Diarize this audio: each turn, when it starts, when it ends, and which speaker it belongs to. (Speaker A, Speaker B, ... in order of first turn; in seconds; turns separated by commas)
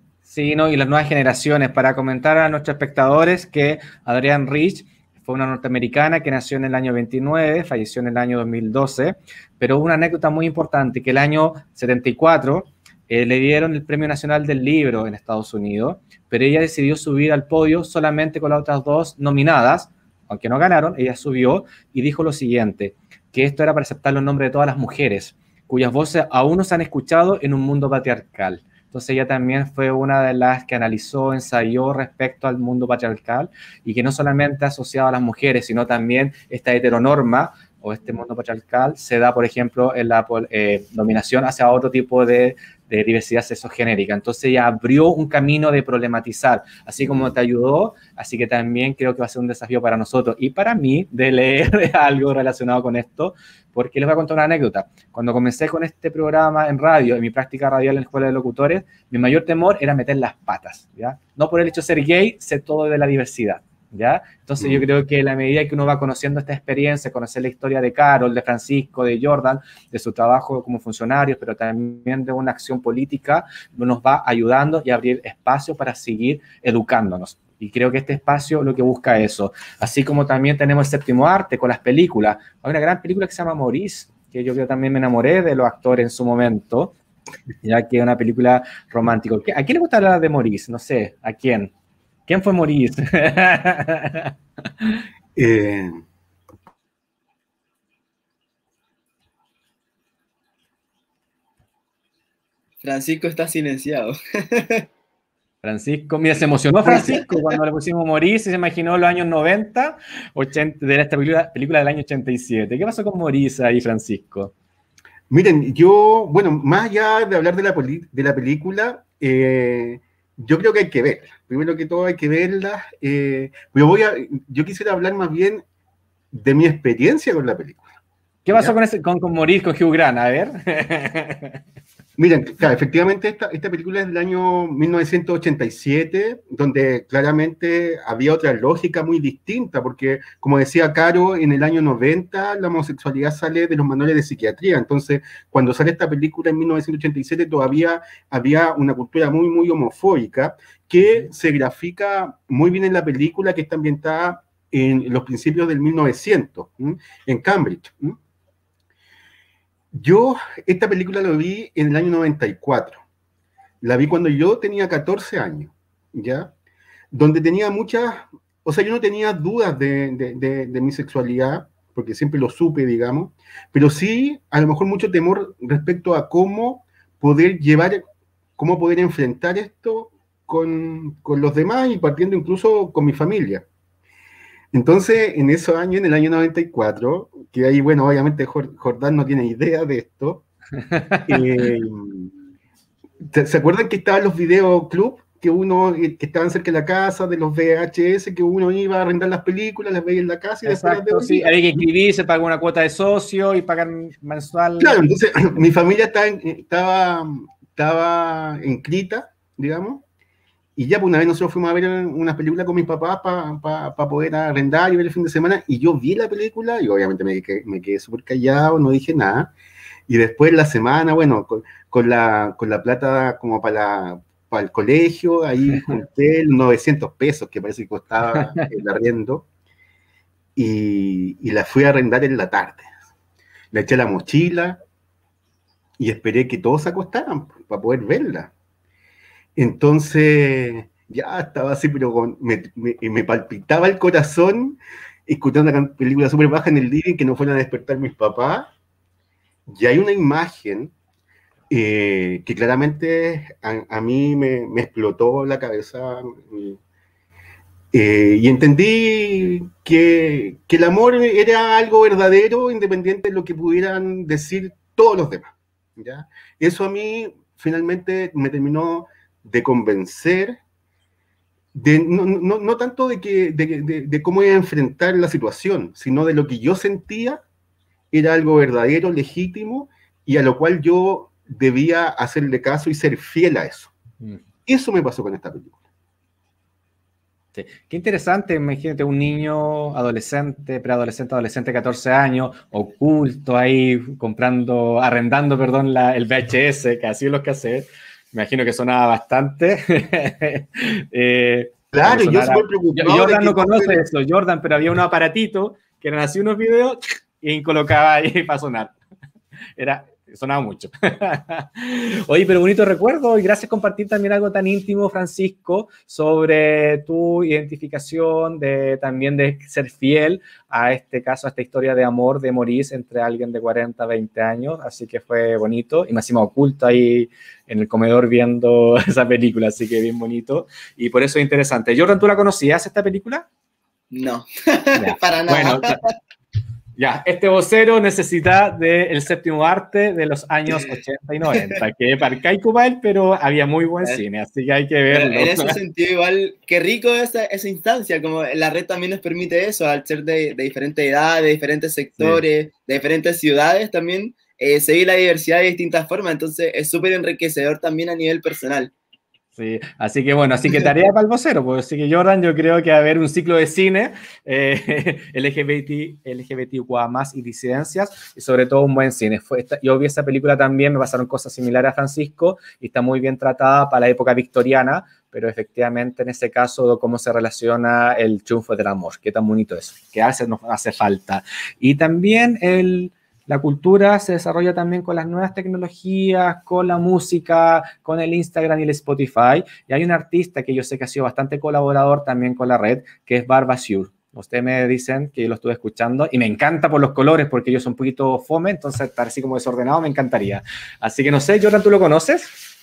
Speaker A: 0.3-87.0, Speaker B: 64.6-64.8, Speaker A: 87.6-91.7, Speaker A: 92.3-95.0, Speaker B: 95.4-95.9, Speaker C: 102.8-104.9, Speaker A: 105.6-114.5, Speaker C: 106.9-107.6, Speaker B: 115.3-125.6, Speaker B: 126.3-127.9, Speaker A: 128.5-131.6, Speaker B: 128.5-128.8, Speaker B: 132.2-158.2, Speaker B: 159.9-163.0, Speaker B: 163.8-166.5, Speaker B: 167.1-178.0, Speaker B: 178.6-183.7, Speaker B: 184.7-190.4, Speaker A: 190.9-191.4, Speaker B: 191.3-192.3, Speaker B: 193.2-201.8, Speaker A: 200.7-205.0, Speaker B: 204.8-210.0, Speaker B: 210.8-219.5, Speaker B: 220.1-229.5, Speaker B: 230.6-232.9, Speaker B: 233.7-234.8, Speaker B: 236.0-238.5, Speaker B: 239.6-248.7, Speaker B: 249.7-250.9, Speaker B: 251.7-256.8, Speaker B: 257.9-270.6, Speaker B: 271.7-277.4, Speaker B: 278.1-283.9, Speaker B: 284.7-285.8, Speaker A: 287.5-308.9, Speaker B: 301.9-304.0, Speaker A: 309.8-333.5, Speaker C: 334.1-336.1, Speaker A: 334.9-336.0, Speaker A: 337.0-345.8, Speaker C: 345.1-358.9, Speaker A: 359.6-402.5